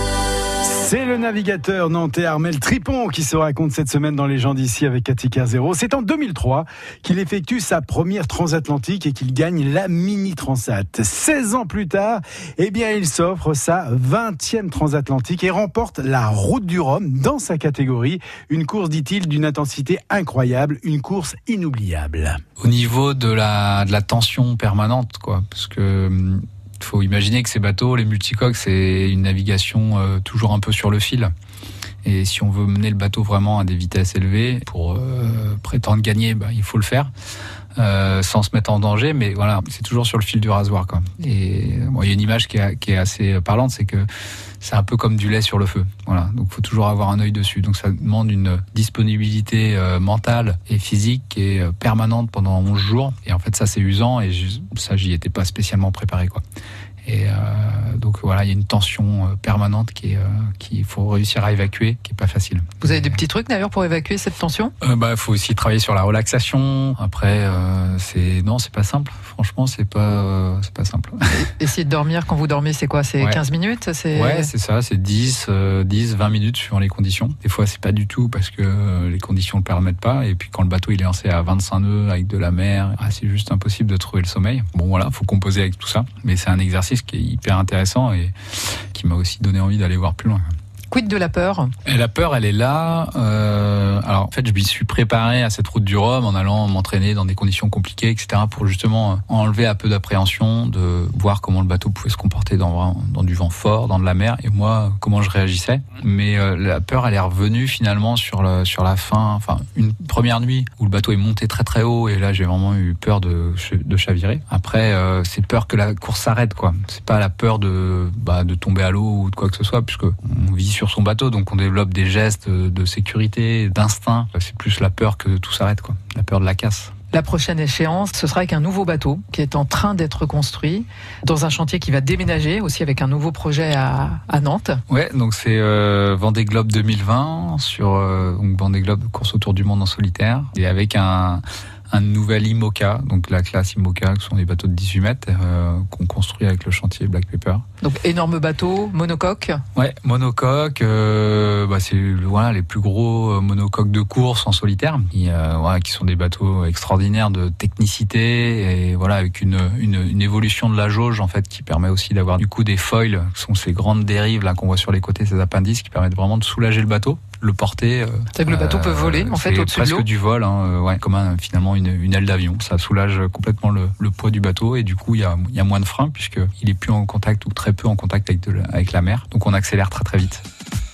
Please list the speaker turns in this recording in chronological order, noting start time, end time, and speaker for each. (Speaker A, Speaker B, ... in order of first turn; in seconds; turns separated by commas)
Speaker A: 0.6-22.4, Speaker B: 22.6-31.3, Speaker B: 32.0-37.1, Speaker B: 37.8-44.1, Speaker B: 44.6-56.4, Speaker B: 57.0-63.2, Speaker C: 62.8-64.7, Speaker B: 64.8-71.3, Speaker C: 71.3-74.5, Speaker B: 74.1-90.4, Speaker C: 90.9-91.7, Speaker B: 91.8-126.9, Speaker C: 127.1-134.8, Speaker B: 134.9-147.7, Speaker C: 147.8-149.6, Speaker B: 149.8-180.4, Speaker C: 168.3-170.1